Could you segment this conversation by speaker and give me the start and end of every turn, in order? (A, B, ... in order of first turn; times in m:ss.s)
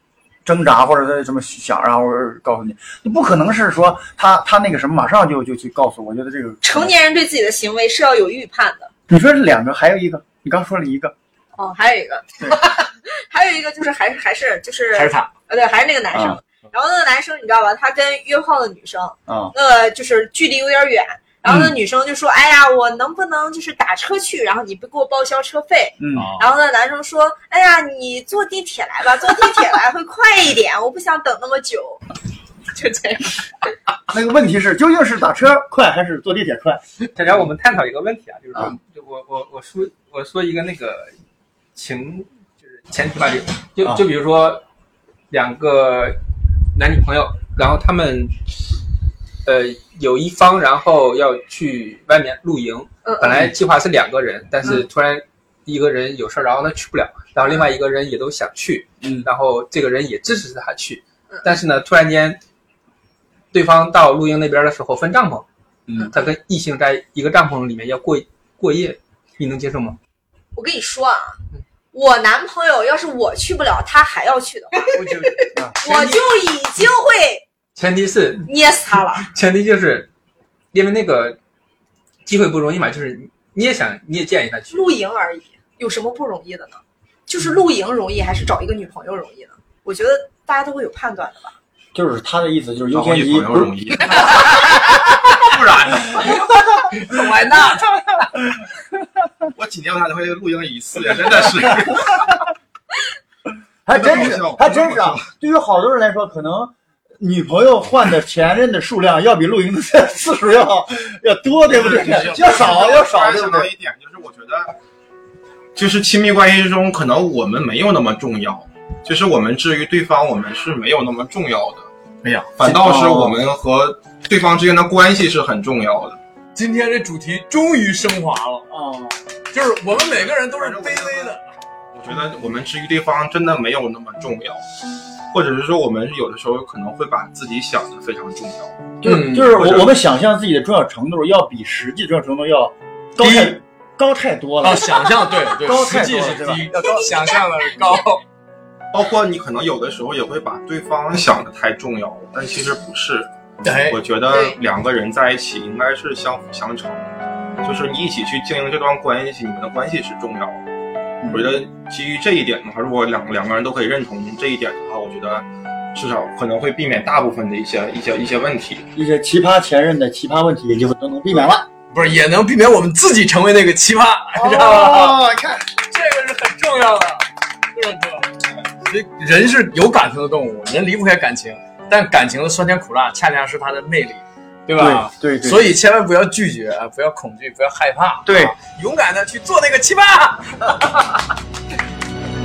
0:00.5-0:06.9 A
0:06.6-0:08.9 B
0:09.1-0:11.1 A
0:11.6-0:32.0 B
0:14.9-0:15.3 C
0:16.1-0:16.4 A
0:19.3-0:19.5 A
0:26.0-0:26.3 A
0:26.1-0:26.5 C
0:32.7-0:33.4 B
0:34.1-0:36.8 A
0:37.2-0:41.1 D
0:41.8-0:44.6 D
0:45.3-0:46.2 D
0:46.7-0:48.4 D
0:49.4-1:02.4 D
0:59.0-0:59.3 A
1:03.5-1:05.4 D
1:06.0-1:10.0 D
1:10.5-1:11.4 B
1:11.9-1:15.2 B
1:14.9-1:16.3 D
1:15.8-1:17.4 B
1:17.8-1:18.5 D
1:18.5-1:19.3 B
1:19.2-1:20.1 D
1:20.7-1:21.4 D
1:22.3-1:24.8 D
1:24.7-1:31.6 B
1:31.9-1:33.8 A
1:32.9-1:34.7 E
1:34.2-1:35.5 C
1:35.4-1:36.4 E
1:36.1-1:37.9 C
1:39.5-1:42.4 E
1:43.9-1:53.7 A
1:43.9-1:45.2 E
1:51.7-1:54.7 E
1:51.8-1:52.7 C
1:55.8-2:01.9 E
2:02.2-2:03.4 C
2:02.6-2:06.2 E
2:06.6-2:08.7 C
2:08.7-2:09.2 A
2:09.5-2:11.4 C
2:10.1-2:11.3 E
2:11.9-2:14.6 E
2:15.3-2:18.9 E
2:19.0-2:26.7 A
2:19.0-2:19.8 C
2:19.6-2:19.9 E
2:23.2-2:23.6 C
2:24.6-2:28.2 C
2:28.9-2:33.3 E
2:33.6-2:34.0 C
2:33.9-2:37.1 E
2:34.3-2:34.6 B
2:37.6-2:40.6 E
2:41.2-2:41.5 A
2:41.3-2:48.8 E
2:49.0-2:51.7 A
2:51.9-2:55.2 C
2:54.4-2:55.6 A
2:55.8-3:10.8 C
3:04.8-3:05.8 A
3:08.2-3:08.6 A